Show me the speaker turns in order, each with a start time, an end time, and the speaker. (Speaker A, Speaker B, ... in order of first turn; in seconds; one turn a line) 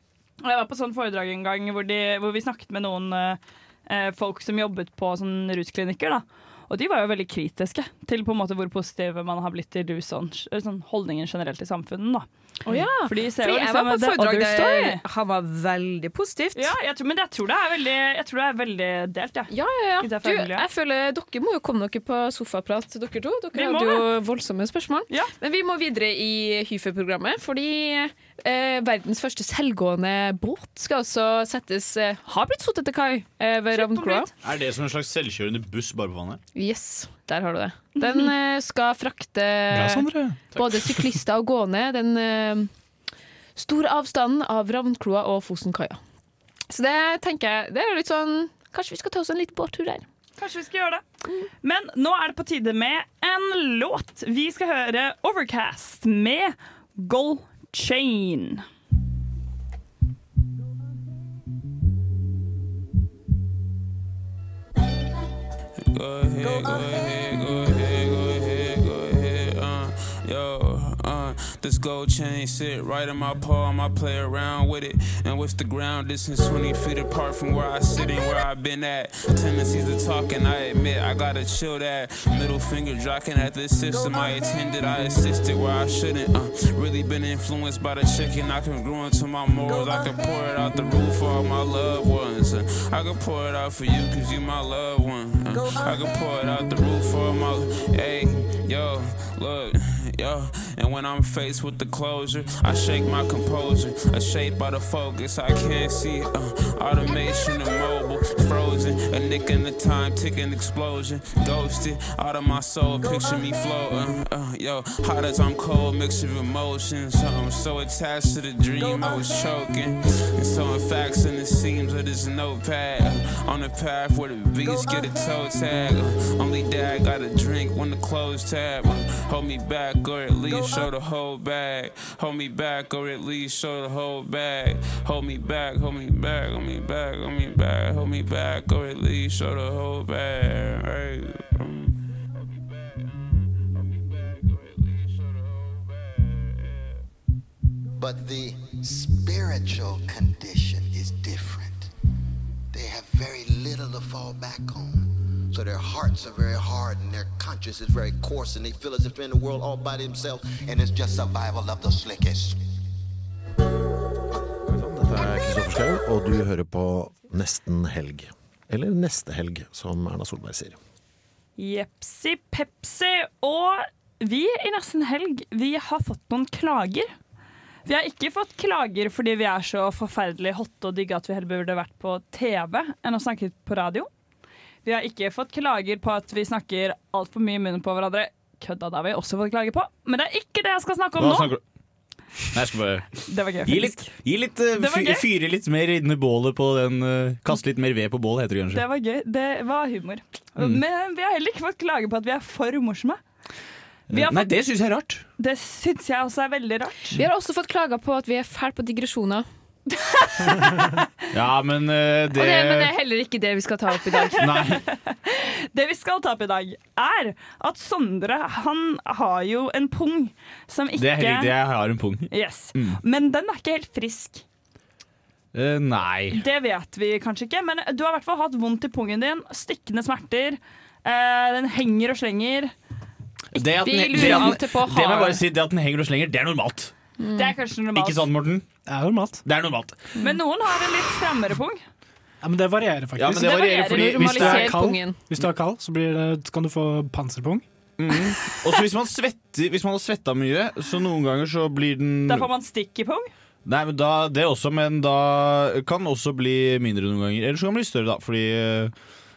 Speaker A: 0.4-12.3
Speaker B: 12.7-16.7
Speaker A: 13.0-15.0
Speaker A: 16.6-20.6
Speaker B: 19.5-34.3
Speaker A: 23.6-24.1
Speaker A: 33.7-34.3
Speaker C: 34.4-36.4
Speaker B: 36.5-42.7
Speaker D: 39.7-40.4
Speaker B: 43.6-46.0
Speaker B: 46.7-50.0
Speaker A: 50.4-51.0
Speaker A: 51.6-58.6
Speaker E: 65.9-142.0
Speaker F: 148.0-151.9
Speaker F: 152.7-162.6
Speaker G: 164.7-170.8
Speaker A: 171.6-177.1
Speaker A: 177.9-184.1
Speaker A: 184.8-191.5
Speaker C: 191.2-191.6
Speaker C: 192.5-198.8
Speaker A: 193.3-194.1
Speaker A: 194.8-195.3
Speaker A: 198.7-203.2
Speaker C: 204.1-205.2
Speaker A: 204.1-204.5
Speaker A: 205.4-207.2
Speaker B: 207.2-209.5
Speaker A: 210.3-210.6
Speaker C: 211.3-212.9
Speaker B: 212.3-214.5
Speaker A: 214.2-221.6
Speaker C: 214.4-214.8
Speaker C: 221.0-223.0
Speaker A: 222.3-224.4
Speaker C: 225.5-226.4
Speaker A: 226.3-232.7
Speaker C: 233.5-236.9
Speaker B: 233.8-235.4
Speaker A: 234.1-234.5
Speaker B: 237.2-237.6
Speaker A: 237.3-238.3
Speaker C: 237.9-238.7
Speaker D: 238.9-239.4
Speaker C: 239.4-240.0
Speaker A: 240.2-241.8
Speaker D: 242.4-247.7
Speaker C: 243.2-244.8
Speaker A: 243.3-244.3
Speaker B: 243.9-245.2
Speaker C: 248.0-252.5
Speaker A: 252.3-253.3
Speaker C: 253.7-258.9